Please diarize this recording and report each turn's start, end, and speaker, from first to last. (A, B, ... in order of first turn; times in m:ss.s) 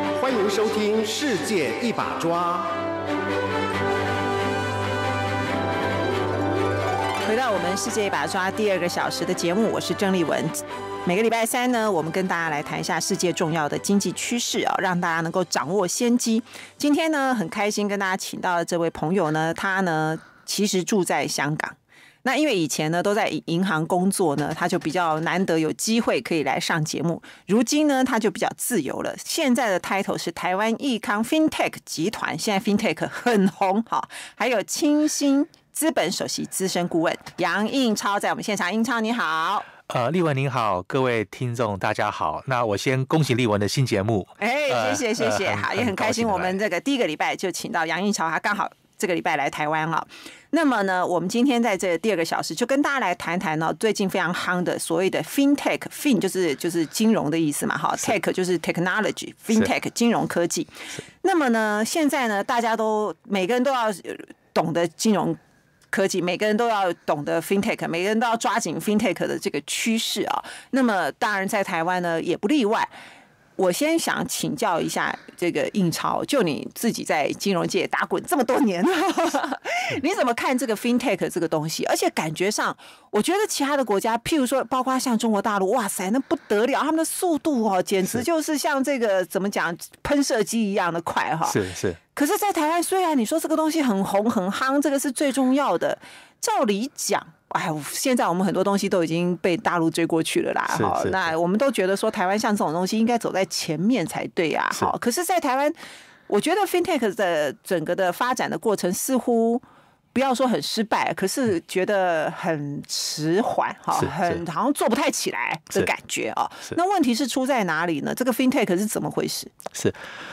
0:00.2-0:02.7 A
0:07.3-0:39.7 B
0:39.9-0:46.6 C
0:44.4-1:05.4 B
1:05.9-1:12.9 B
1:13.6-1:31.6 B
1:31.4-1:32.0 C
1:32.2-1:45.8 B
1:40.7-1:41.3 C
1:46.3-1:49.6 B
1:50.1-1:59.5 B
1:54.0-1:54.4 C